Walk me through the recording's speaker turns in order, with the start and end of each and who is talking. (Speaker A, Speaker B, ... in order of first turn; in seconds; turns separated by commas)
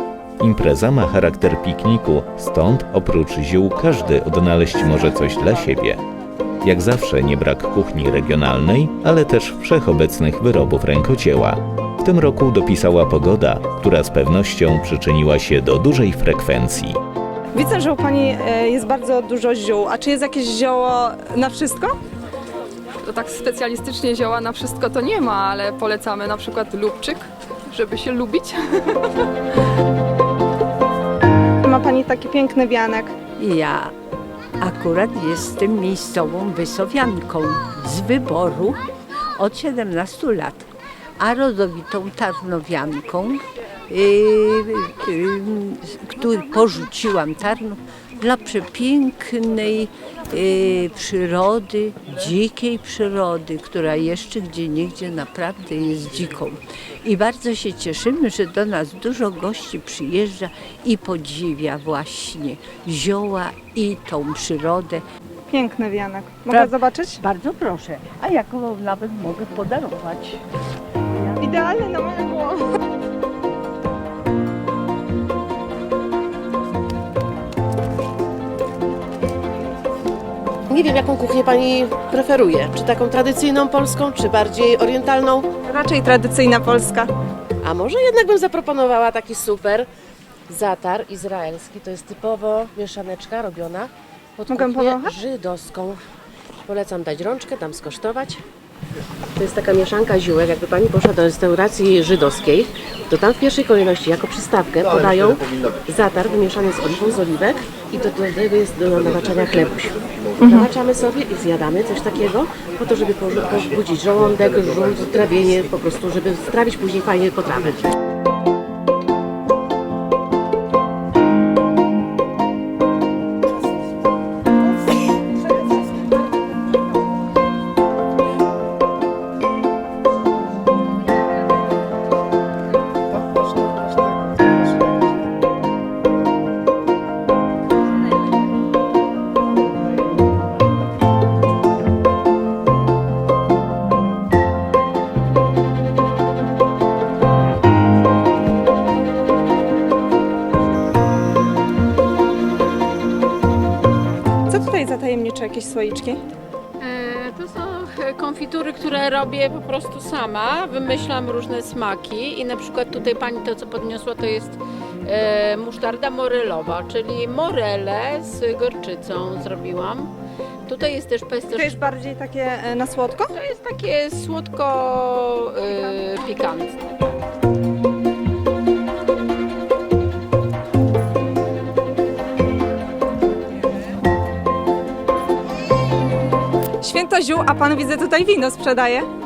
Speaker A: 0.4-6.0, Speaker A: 6.6-17.0, Speaker B: 17.6-21.9, Speaker C: 23.1-29.1, Speaker B: 31.6-33.1, Speaker D: 33.4-33.9, Speaker D: 34.6-38.8, Speaker D: 39.4-40.7, Speaker D: 41.2-65.0, Speaker B: 65.5-67.2, Speaker D: 66.5-70.4, Speaker D: 71.1-71.4, Speaker B: 71.4-72.6, Speaker E: 80.7-85.6, Speaker B: 85.8-87.1, Speaker E: 87.6-89.9, Speaker E: 90.5-96.0, Speaker B: 94.5-95.1, Speaker E: 96.7-98.4, Speaker E: 99.4-117.8, Speaker B: 154.5-156.2, Speaker F: 156.8-170.1, Speaker F: 170.7-171.9, Speaker B: 171.5-173.3, Speaker F: 173.3-176.8, Speaker B: 186.8-189.1